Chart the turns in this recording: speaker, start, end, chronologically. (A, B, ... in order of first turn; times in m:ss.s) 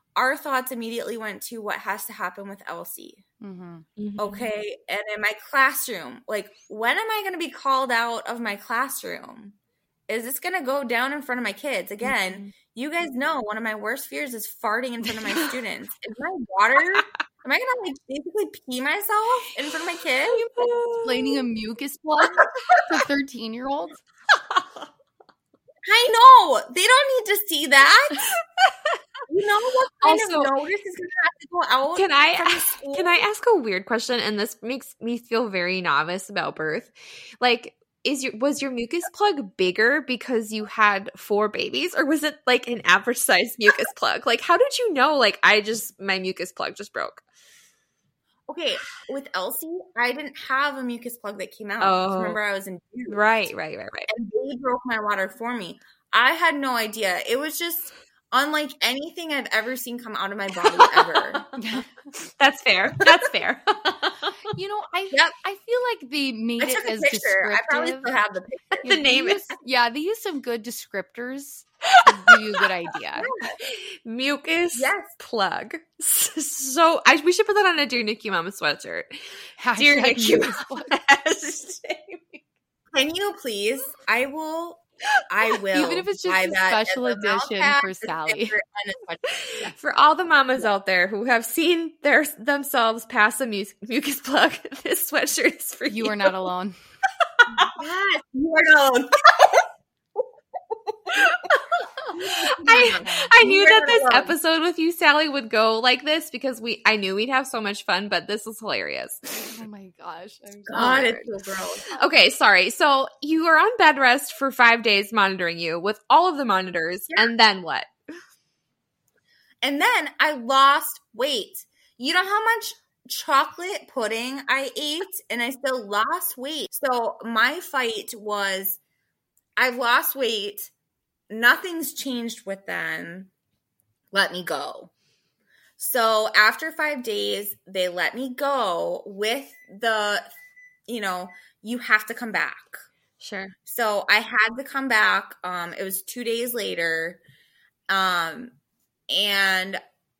0:00.2-0:03.2 A
0:03.4-0:03.9 B
0:04.0-0:04.5 C
0:04.2-0:09.6 A
0:10.1-0:21.1 A
0:12.0-0:12.5 C
0:15.2-0:15.5 C
0:20.5-0:21.2 C
0:20.9-0:24.0 B
0:25.8-0:28.3 A
0:28.2-0:29.0 C
0:29.3-0:33.2 A
0:30.0-0:30.5 C
0:31.9-0:47.2 C
0:48.5-0:53.2 A
0:51.8-0:52.4 C
0:53.1-0:54.1 C
0:54.1-1:01.5 A
1:00.8-1:01.4 C
1:01.6-1:01.9 B
1:02.2-1:04.4 C
1:04.5-1:08.1 B
1:06.6-1:08.8 A
1:08.8-1:13.3 B
1:08.8-1:09.4 C
1:12.0-1:21.8 C
1:13.2-1:13.6 A
1:14.8-1:15.2 A
1:19.6-1:21.0 B
1:21.8-1:22.4 A
1:22.9-1:29.6 A
1:25.7-1:28.6 B
1:29.3-1:36.4 C
1:35.9-1:36.8 B
1:37.8-1:39.7 A
1:41.1-1:49.5 C
1:42.2-1:44.4 A
1:42.6-1:43.3 B
1:49.5-1:51.2 B
1:50.7-1:51.8 A
1:50.7-1:51.3 C
1:51.9-1:57.9 C
1:59.6-2:08.8 A
2:09.6-2:10.7 A
2:11.3-2:13.3 A
2:14.1-2:14.9 A
2:15.8-2:20.3 A
2:20.9-2:22.9 A
2:23.2-2:23.5 C
2:23.7-2:27.2 A
2:27.9-2:28.6 A
2:29.1-2:29.8 A